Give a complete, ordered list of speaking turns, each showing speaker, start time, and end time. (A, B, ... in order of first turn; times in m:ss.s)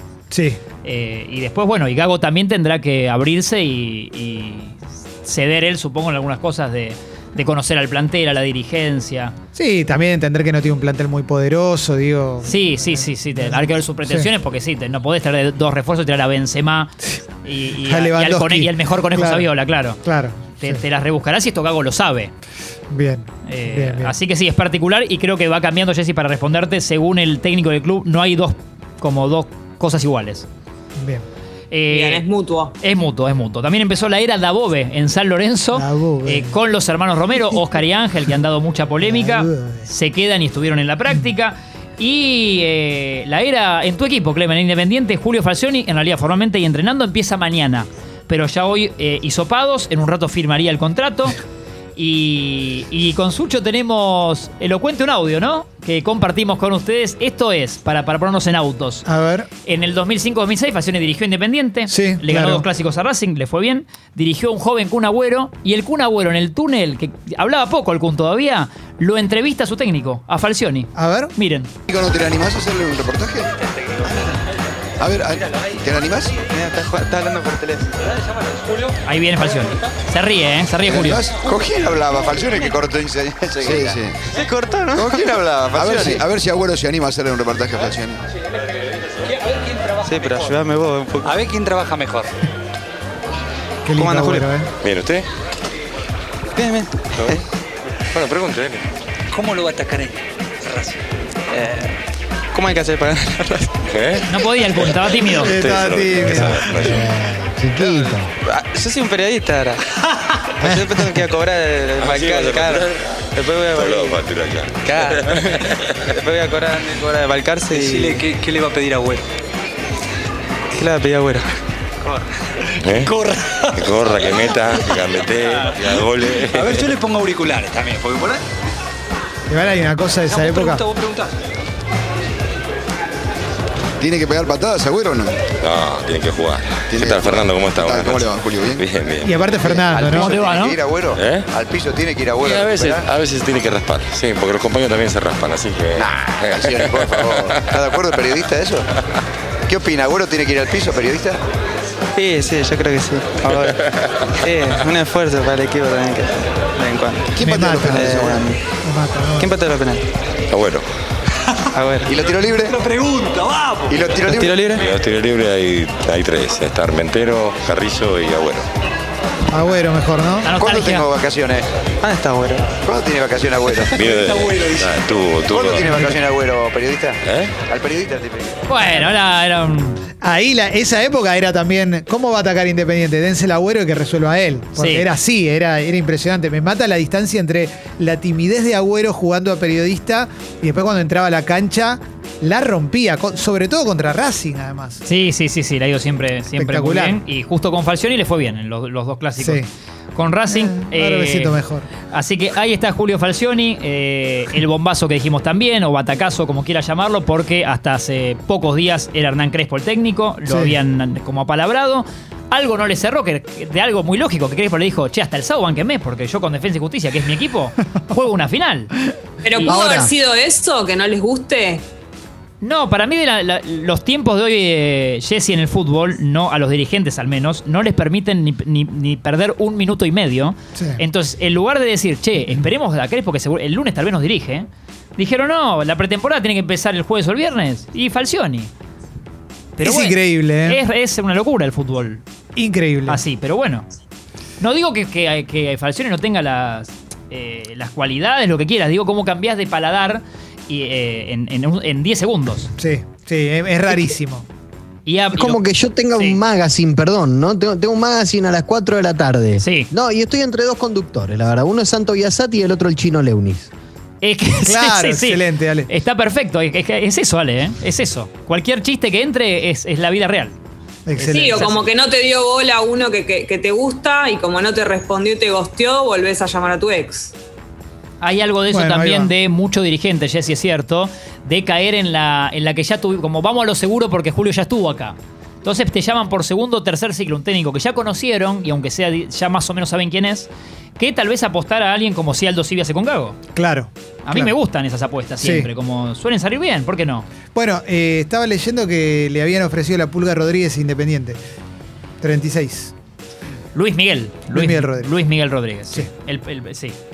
0:00.3-0:00.6 A
0:00.8-0:09.3 B
0:09.6-0:14.3 A
0:12.4-0:20.0 B
0:17.8-0:19.5 A
0:20.0-0:20.8 A
0:20.6-0:22.3 B
0:22.9-0:24.1 A
0:23.5-0:30.5 B
0:31.0-0:31.2 A
0:31.7-0:32.3 B
0:31.9-0:32.7 C
0:32.8-0:51.4 B
0:35.7-0:36.6 A
0:39.0-0:39.9 A
0:52.0-0:59.0 B
0:59.1-0:59.5 A
0:59.6-1:11.7 B
1:01.9-1:02.6 A
1:11.0-1:11.3 A
1:11.9-1:13.5 D
1:15.0-1:16.4 D
1:16.5-1:17.9 E
1:19.0-1:21.3 B
1:20.8-1:28.2 D
1:25.8-1:26.2 E
1:30.0-1:30.5 F
1:30.1-1:31.4 E
1:31.2-1:32.3 F
1:33.9-1:34.7 A
1:34.0-1:34.5 E
1:34.8-1:35.3 G
1:36.6-1:37.3 E
1:38.1-1:38.8 G
1:39.3-1:40.1 F
1:42.5-1:43.7 E
1:43.9-1:44.2 G
1:44.3-1:45.5 B
1:44.8-1:47.1 G
1:45.3-1:47.1 A
1:46.9-1:48.3 H
1:48.5-1:49.8 E
1:50.6-1:51.2 A
1:50.6-1:54.2 E
1:52.0-1:53.0 G
1:53.6-1:55.8 G
1:54.8-1:55.6 E
1:56.2-1:58.2 E
1:57.7-1:59.2 F
2:00.7-2:01.5 E
2:02.8-2:03.1 G
2:03.0-2:03.4 F
2:03.7-2:07.0 G
2:06.5-2:08.3 F
2:09.5-2:10.9 A
2:10.3-2:11.2 F
2:14.0-2:15.4 D
2:15.6-2:19.5 G
2:16.9-2:18.9 D
2:19.2-2:20.4 A
2:19.5-2:23.1 D
2:20.1-2:20.8 B
2:21.1-2:21.5 G
2:22.4-2:28.2 G
2:26.0-2:28.8 D
2:29.7-2:31.4 D
2:32.2-2:33.8 E
2:33.4-2:33.8 G
2:34.4-2:37.3 E
2:37.4-2:38.5 D
2:37.4-2:39.5 A
2:38.2-2:38.6 E
2:39.4-2:40.0 E
2:40.5-2:40.9 G
2:41.7-2:42.1 E
2:42.1-2:42.9 D
2:42.9-2:44.0 F
2:43.9-2:44.6 D
2:44.4-2:44.8 E
2:44.8-2:48.7 G
2:49.5-2:50.5 A
2:50.4-2:51.1 B
2:50.6-2:51.7 D
2:52.0-2:52.7 E
2:52.8-2:54.3 D
2:53.8-2:56.1 G
2:55.5-2:58.5 D
2:57.2-2:57.6 G
2:58.7-3:00.0 B
3:00.2-3:15.0 A
3:04.8-3:05.0 B
3:15.0-3:19.6 B
3:16.6-3:17.2 A
3:19.4-3:19.7 A
3:20.2-3:21.6 B
3:20.5-3:21.9 A
3:22.1-3:38.9 B
3:30.5-3:30.8 A
3:39.4-3:41.8 C
3:39.7-3:40.1 H
3:42.6-3:58.7 B
3:50.8-3:51.0 A
3:59.8-4:02.2 B
3:59.8-4:00.8 A
4:02.6-4:03.2 A
4:03.1-4:03.9 B
4:04.6-4:12.7 B
4:12.8-4:14.5 A
4:15.1-4:15.6 B
4:15.4-4:23.7 H
4:16.2-4:16.4 B
4:19.6-4:19.9 B
4:24.2-4:30.6 B
4:24.6-4:25.9 A
4:31.1-4:31.6 A
4:31.2-4:31.9 B
4:31.3-4:37.4 C
4:38.2-4:53.4 B
4:38.7-4:39.3 A
4:53.6-4:54.5 A
4:54.2-4:57.3 B
4:55.4-4:55.7 A
4:57.5-5:01.4 A
5:02.2-5:02.9 A
5:03.7-5:07.0 B
5:04.5-5:05.1 A